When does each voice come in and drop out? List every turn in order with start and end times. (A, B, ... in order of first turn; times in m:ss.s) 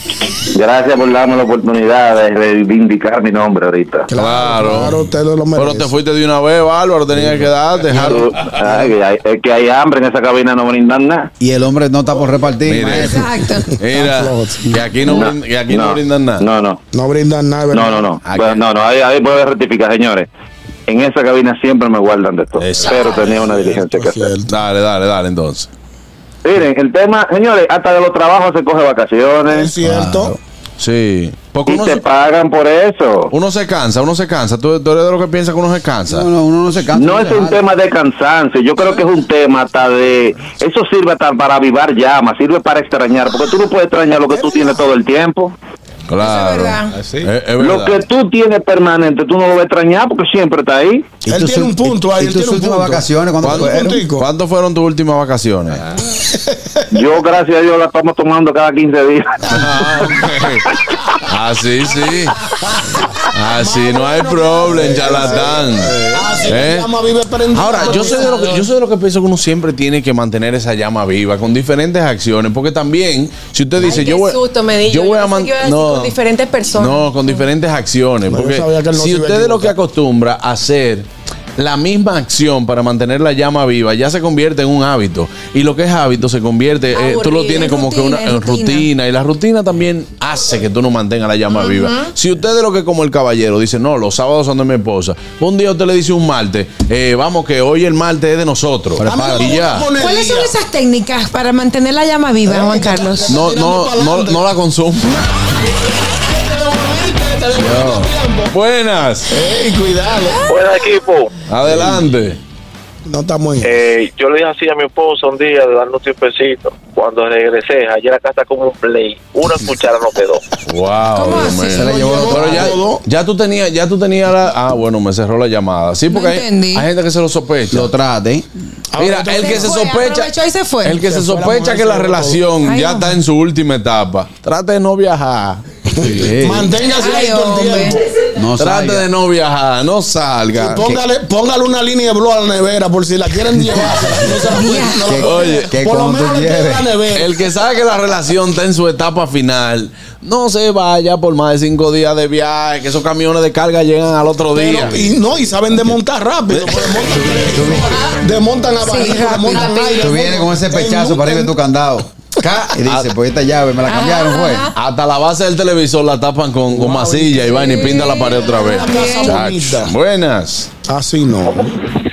0:00.5-0:04.1 A
0:04.1-0:05.9 B
0:04.2-0:05.0 C
0:05.6-0:09.0 C
0:08.0-0:11.3 A
0:11.4-0:13.3 D
0:12.6-0:16.5 C
0:12.9-0:13.7 E
0:13.8-0:15.2 B
0:15.0-0:16.8 A
0:16.9-0:18.2 B
0:17.8-0:20.3 A
0:18.2-0:18.7 C
0:20.9-0:24.2 A
0:22.6-0:23.4 C
0:23.0-0:24.5 B
0:24.5-0:25.7 C
0:26.4-0:29.7 A
0:29.5-0:30.4 B
0:29.8-0:30.4 D
0:30.8-0:32.1 C
0:31.7-0:33.3 A
0:33.3-0:36.3 C
0:36.1-0:37.6 D
0:37.0-0:45.5 A
0:44.3-0:44.9 B
0:46.1-0:48.1 C
0:46.2-0:46.9 E
0:47.6-0:51.1 A
0:51.2-0:54.0 D
0:51.3-0:54.3 B
0:53.4-0:55.8 C
0:56.2-0:56.8 B
0:57.0-0:59.4 A
0:59.5-1:00.7 C
0:59.6-1:00.3 B
1:01.3-1:02.4 C
1:03.3-1:06.9 C
1:03.5-1:08.6 B
1:07.5-1:16.2 C
1:13.8-1:17.3 F
1:16.7-1:39.9 C
1:18.3-1:19.8 B
1:26.9-1:27.7 F
1:27.5-1:28.9 E
1:31.5-1:32.1 F
1:39.0-1:39.6 D
1:39.0-1:40.5 B
1:40.0-1:43.4 E
1:42.4-1:44.5 B
1:43.3-1:45.2 C
1:46.1-1:48.6 B
1:47.6-1:48.1 D
1:48.5-1:49.3 C
1:49.3-1:50.4 B
1:50.4-1:51.3 G
1:51.5-1:52.4 C
1:53.1-1:53.7 B
1:53.6-2:00.4 G
2:00.7-2:07.9 C
2:01.2-2:02.1 E
2:01.7-2:02.8 D
2:01.8-2:03.0 B
2:06.1-2:06.9 E
2:07.7-2:08.5 D
2:08.9-2:09.8 B
2:09.0-2:15.6 C
2:09.4-2:11.0 E
2:11.0-2:12.4 B
2:12.6-2:13.2 E
2:16.0-2:18.0 B
2:16.0-2:16.7 D
2:16.8-2:18.0 E
2:18.4-2:19.1 D
2:18.6-2:21.0 C
2:20.5-2:27.4 B
2:24.6-2:25.2 E
2:25.1-2:26.9 D
2:25.2-2:25.7 C
2:27.1-2:35.1 C
2:34.5-2:41.6 B
2:36.5-2:37.0 C
2:37.3-2:38.0 D
2:38.8-2:39.7 E
2:39.5-2:40.1 F
2:40.0-2:44.7 D
2:42.8-2:43.1 C
2:43.8-2:44.7 E
2:44.7-2:50.7 C
2:47.5-2:49.4 E
2:48.7-2:49.9 B
2:50.9-2:51.7 B